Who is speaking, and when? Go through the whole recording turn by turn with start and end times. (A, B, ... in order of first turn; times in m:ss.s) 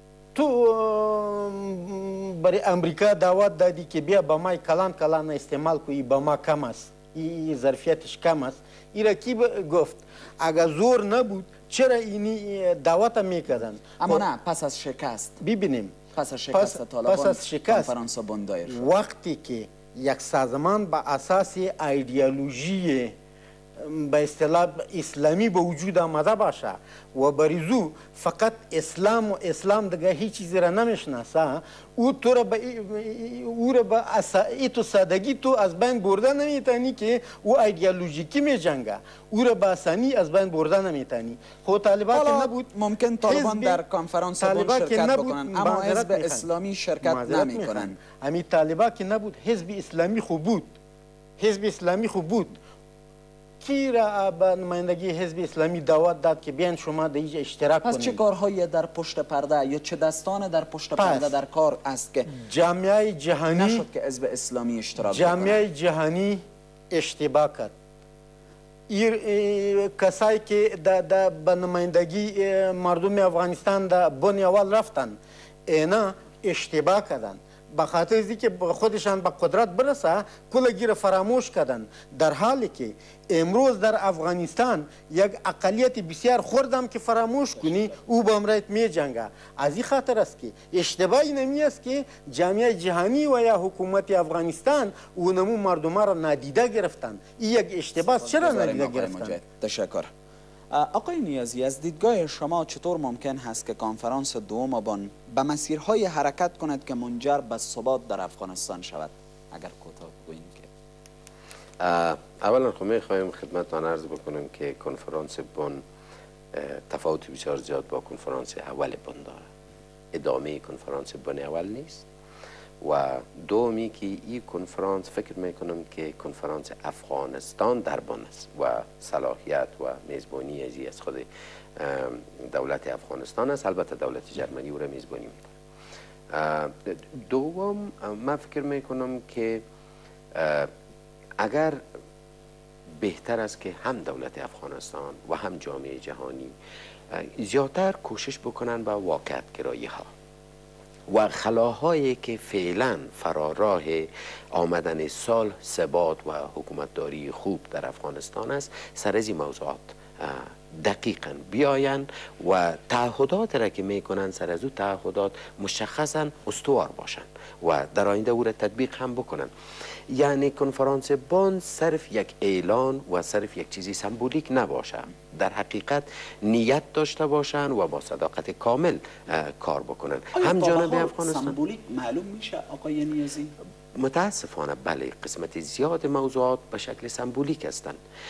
0:00.3-0:14.3 A
0:14.0-0:15.4 B
0:15.4-0:16.0 A
0:16.1-0:18.8 B
0:16.5-0:17.9 A
0:18.7-0:23.1 A
0:23.8-0:42.7 A
0:42.1-0:48.0 B
0:43.3-0:43.8 A
0:44.4-0:46.5 A
0:47.0-0:50.7 A
0:51.4-0:52.6 A
0:53.6-0:58.2 A
0:57.8-1:02.3 B
1:01.0-1:01.3 A
1:02.3-1:03.9 A
1:03.6-1:05.6 B
1:05.0-1:07.7 A
1:08.9-1:39.4 A
1:38.0-1:40.1 B
1:40.7-1:50.7 B
1:51.8-1:55.8 C
1:56.5-1:59.4 C
2:00.1-2:02.0 C
2:02.8-2:15.5 C
2:16.3-2:19.6 C
2:20.3-2:20.7 C
2:21.4-2:21.8 C
2:23.0-2:26.6 C
2:27.1-2:30.1 C
2:31.1-2:49.5 C
2:50.1-3:01.6 C
3:00.3-3:03.5 B
3:04.0-3:08.0 C